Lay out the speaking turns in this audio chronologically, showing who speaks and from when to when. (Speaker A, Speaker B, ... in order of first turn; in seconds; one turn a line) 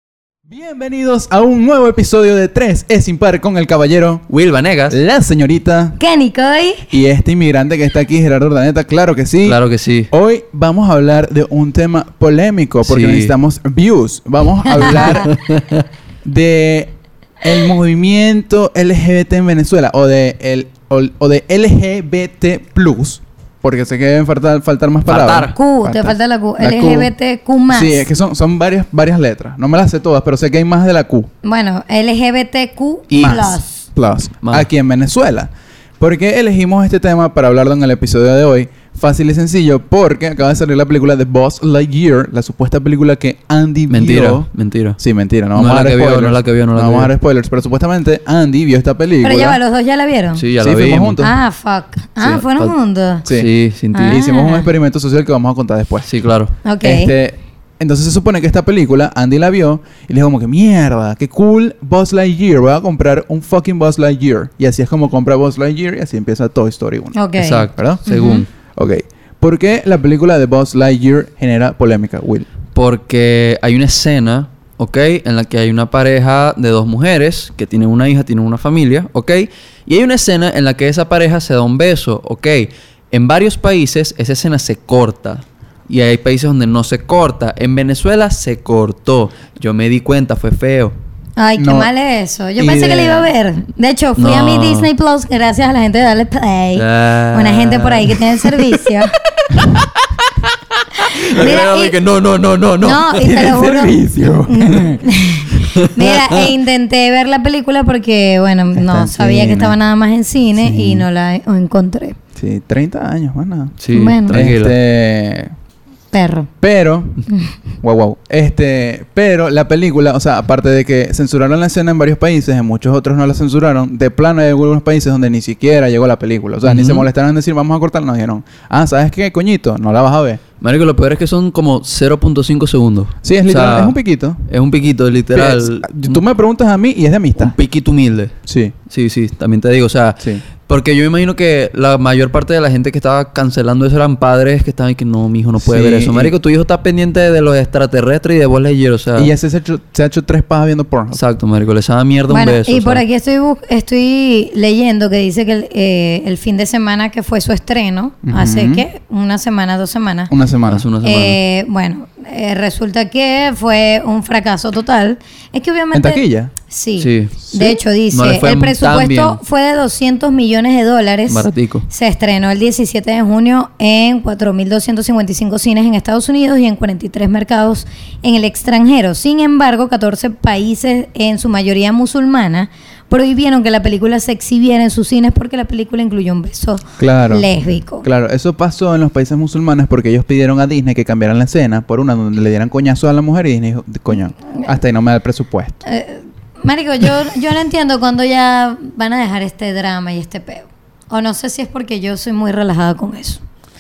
Speaker A: 0.5-4.2
Speaker B: 4.3-5.0
Speaker A: 4.9-6.0
Speaker C: 6.0-6.9
Speaker A: 6.9-9.6
Speaker B: 9.4-10.1
Speaker A: 10.1-15.3
Speaker B: 12.8-13.3
Speaker C: 14.7-15.0
Speaker B: 14.8-15.8
Speaker A: 16.2-27.1
Speaker B: 25.1-25.6
Speaker C: 25.5-28.1
Speaker A: 27.7-31.3
Speaker C: 31.4-33.8
Speaker B: 33.1-33.4
Speaker A: 33.1-44.5
Speaker B: 34.4-34.7
Speaker B: 43.9-45.0
Speaker A: 45.0-49.6
Speaker B: 45.5-47.1
Speaker C: 49.2-50.4
Speaker B: 50.4-51.2
Speaker A: 50.6-51.4
Speaker C: 51.2-53.2
Speaker B: 52.2-52.7
Speaker B: 53.2-54.2
Speaker A: 53.3-56.1
Speaker C: 53.9-54.7
Speaker B: 56.1-56.5
Speaker C: 56.6-57.1
Speaker A: 56.8-67.2
Speaker C: 67.2-68.5
Speaker B: 67.4-68.5
Speaker A: 67.7-68.0
Speaker A: 68.7-72.5
Speaker B: 72.7-90.9
Speaker C: 91.4-99.1
Speaker A: 91.6-91.9
Speaker A: 92.6-93.3
Speaker B: 94.2-94.9
Speaker B: 96.8-98.7
Speaker B: 99.4-103.3
Speaker C: 101.3-102.0
Speaker C: 102.8-112.2
Speaker A: 103.2-105.1
Speaker B: 105.9-106.4
Speaker A: 108.8-109.8
Speaker A: 110.6-111.1
Speaker A: 112.4-113.8
Speaker B: 113.8-114.8
Speaker C: 113.9-114.4
Speaker A: 114.3-115.5
Speaker C: 116.1-116.5
Speaker A: 116.6-117.2
Speaker A: 117.8-130.4
Speaker B: 126.7-127.1
Speaker B: 130.6-136.2
Speaker A: 133.2-134.4
Speaker A: 135.3-137.6
Speaker B: 137.4-138.3
Speaker A: 138.5-138.8
Speaker B: 138.9-149.3
Speaker A: 145.6-146.4
Speaker A: 149.2-151.2
Speaker B: 151.1-153.0
Speaker C: 152.3-160.3
Speaker A: 158.2-158.8
Speaker A: 160.3-160.8
Speaker B: 160.7-161.4
Speaker C: 161.0-188.1
Speaker A: 165.9-166.5
Speaker B: 167.0-169.4
Speaker B: 171.3-171.9
Speaker A: 187.0-187.5
Speaker A: 188.0-195.8
Speaker C: 195.8-203.4